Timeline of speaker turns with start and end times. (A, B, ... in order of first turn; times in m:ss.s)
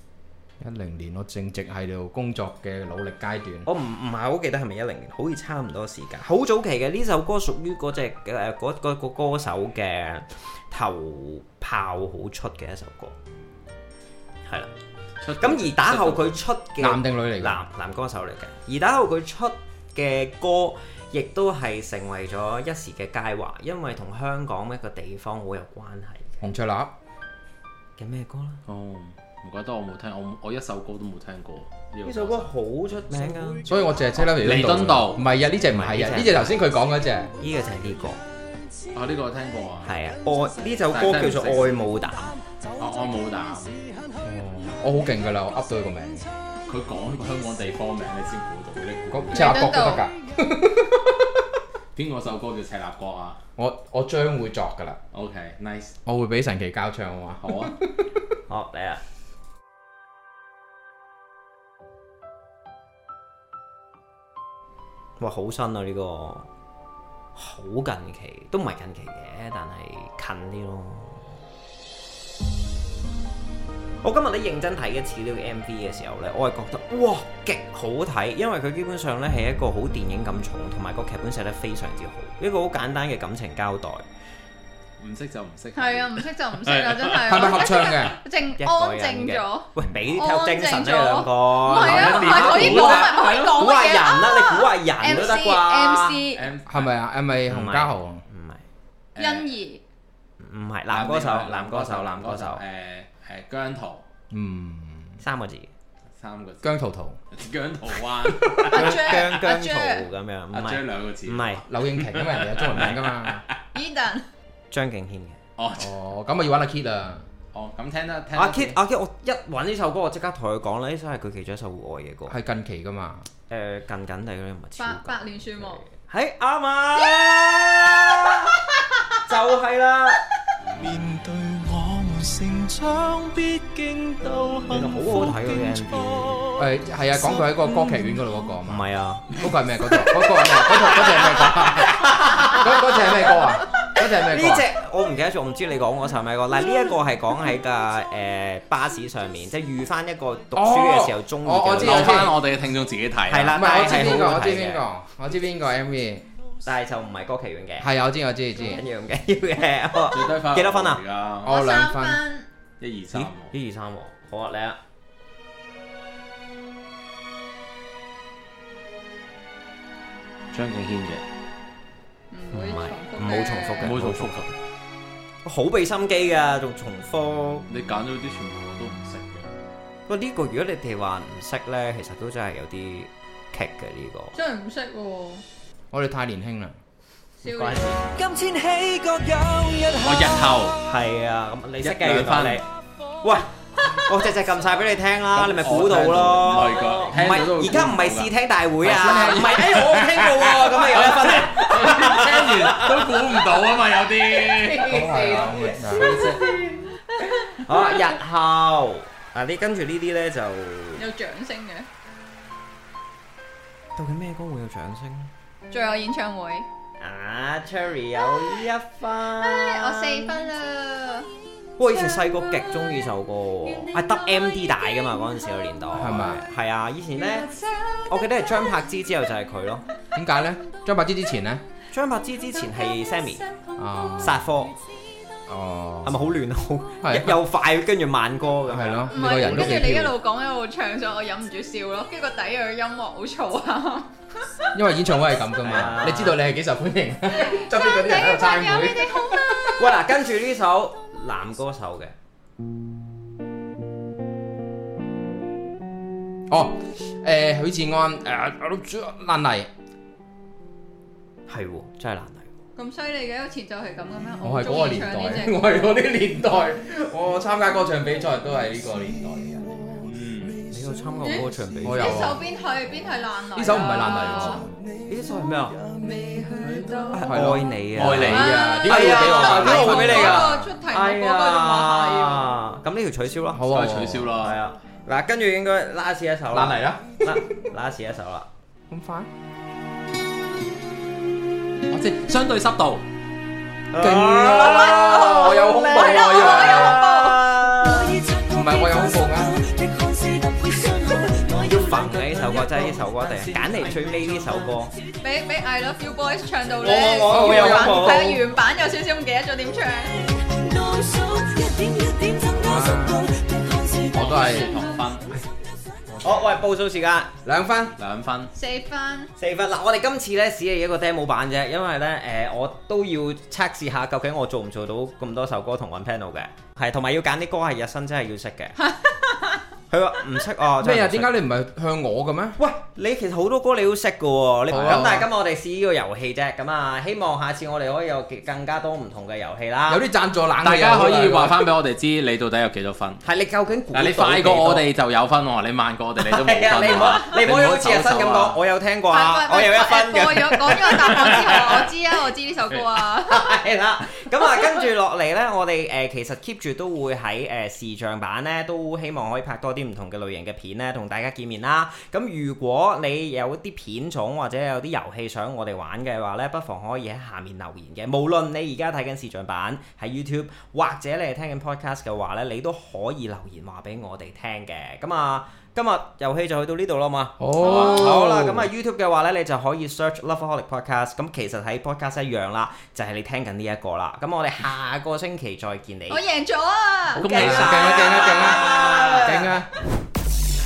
0:00.6-0:03.7 A
0:03.6-0:13.2 B
0:14.5-0:14.7 B
0:15.2-0:16.4 C
0:15.4-0:26.5 B
0:16.8-0:17.6 A
0:26.4-0:26.9 A
0:28.0-0:28.6 B
0:28.7-0:32.5 C
0:32.0-0:33.7 B
0:33.7-0:37.3 A
0:34.3-0:35.2 C
0:35.7-0:36.7 B
0:37.4-0:38.2 B
0:38.9-0:39.9 C
0:39.8-0:42.4 B
0:40.9-0:41.8 C
0:42.8-0:43.8 C
0:44.2-0:46.3 A
0:46.7-0:49.6 C
0:49.1-0:51.4 A
0:49.3-0:50.1 D
0:51.9-0:53.4 C
0:53.6-0:55.0 A
0:55.1-0:55.9 C
0:56.1-0:58.1 A
0:57.4-0:57.8 C
0:58.5-0:59.0 B
1:05.2-1:06.5 B
1:07.4-1:11.4 B
1:14.0-1:24.0 B
1:25.0-1:28.1 C
1:25.8-1:36.4 D
1:27.3-1:28.2 A
1:28.6-1:36.2 B
1:31.7-1:33.6 C
1:36.3-1:36.9 C
1:36.7-1:38.2 A
1:37.5-1:38.6 B
1:39.2-1:39.5 C
1:39.2-1:39.8 D
1:40.4-1:42.6 B
1:40.9-1:44.0 C
1:44.3-1:45.2 A
1:45.2-1:45.7 B
1:46.2-1:46.7 C
1:46.6-1:47.2 A
1:47.3-1:48.8 C
1:48.2-1:48.8 A
1:48.7-1:50.1 D
1:48.7-1:51.6 B
1:50.5-1:53.6 C
1:51.7-1:53.4 A
1:53.7-1:54.3 D
1:54.7-1:55.4 B
1:55.6-1:56.0 C
1:55.8-1:57.2 A
1:57.5-1:58.8 C
1:58.3-2:02.4 B
2:02.3-2:03.3 A
2:03.5-2:08.7 B
2:04.8-2:05.8 D
2:09.2-2:10.2 B
2:10.8-2:14.8 E
2:12.3-2:12.9 D
2:13.8-2:14.4 D
2:14.7-2:16.4 B
2:16.6-2:24.7 A
2:18.6-2:19.5 B
2:20.1-2:23.2 B
2:24.0-2:32.3 B
2:30.5-2:32.4 A
2:31.8-2:33.7 C
2:33.3-2:34.8 B
2:33.5-2:36.3 A
2:36.6-2:37.9 B
2:37.8-2:38.8 A
2:38.6-2:41.0 B
2:40.1-2:41.5 C
2:41.4-2:42.2 A
2:41.4-2:42.5 D
2:42.8-2:43.5 C
2:43.1-2:44.8 B
2:50.5-2:51.2 C
2:52.3-2:54.0 D
2:52.5-2:54.6 B
2:53.8-2:54.5 C
2:55.4-2:57.7 B
2:57.7-2:59.5 C
3:00.1-3:04.4 B
3:04.4-3:05.4 D
3:05.9-3:06.8 A
3:07.4-3:10.2 D
3:07.4-3:08.0 B
3:10.0-3:10.8 C
3:10.8-3:12.7 B
3:11.8-3:12.6 C
3:13.2-3:23.4 B
3:15.3-3:25.1 C
3:24.4-3:27.6 D
3:24.9-3:26.2 A
3:26.0-3:26.6 B
3:26.0-3:26.4 C
3:27.6-3:31.1 B
3:31.0-3:31.9 D
3:34.0-3:35.3 B
3:35.7-3:36.7 D
3:37.0-3:40.4 B
3:39.4-3:41.3 D
3:41.8-3:47.6 B
3:44.0-3:44.8 D
3:45.9-3:46.4 A
3:47.3-3:48.1 D
3:48.1-3:49.8 B
3:50.2-3:51.6 A
3:51.9-3:53.5 B
3:53.8-3:54.4 A
3:54.2-3:54.8 B
3:55.5-3:56.2 A
3:56.0-3:59.8 B
3:57.0-3:57.4 A
3:58.7-4:00.2 A
3:59.1-4:04.7 D
4:04.7-4:09.8 A
4:05.6-4:06.4 B
4:07.4-4:09.8 D
4:09.8-4:12.1 B
4:16.5-4:19.7 A
4:21.5-4:22.5 B
4:22.8-4:26.0 D
4:24.4-4:30.0 A
4:30.0-4:30.6 C
4:30.7-4:32.4 B
4:31.2-4:34.7 D
4:31.8-4:32.4 A
4:33.5-4:34.7 A
4:35.1-4:36.1 B
4:36.7-4:37.2 D
4:36.8-4:40.7 A
4:37.1-4:43.7 B
4:38.0-4:38.5 C
4:38.4-4:42.5 D
4:43.5-4:44.3 A
4:43.7-4:44.6 C
4:44.4-4:48.5 B
4:46.5-4:47.0 A
4:48.9-4:49.3 A
4:51.9-4:53.1 C
4:53.9-4:58.3 B
4:54.0-4:57.0 A
4:54.5-4:57.5 D
4:58.5-4:59.6 A
5:00.1-5:01.5 D
5:01.5-5:04.9 B
5:05.2-5:14.1 D
5:06.8-5:08.4 B
5:07.3-5:08.3 A
5:12.4-5:13.4 A
5:14.1-5:14.7 A
5:14.1-5:15.3 C
5:16.1-5:16.5 A
5:16.2-5:17.3 B
5:17.4-5:18.0 A
5:18.0-5:18.5 C
5:18.6-5:19.3 D
5:19.4-5:28.8 B
5:28.9-5:29.6 D
5:29.9-5:31.4 B
5:30.8-5:32.6 A
5:32.6-5:40.0 B
5:34.7-5:35.3 A
5:39.9-5:41.7 A
5:40.6-5:43.2 C
5:43.2-5:44.8 B
5:43.9-5:48.6 C
5:46.2-5:52.0 B
5:49.1-5:53.5 D
5:51.1-5:51.6 C
5:53.0-6:26.2 B
6:17.4-6:18.7 A
6:17.6-6:18.1 C
6:17.6-6:18.2 D
6:26.1-6:28.4 D
6:27.2-6:29.6 B
6:27.2-6:29.3 C
6:27.2-6:29.7 A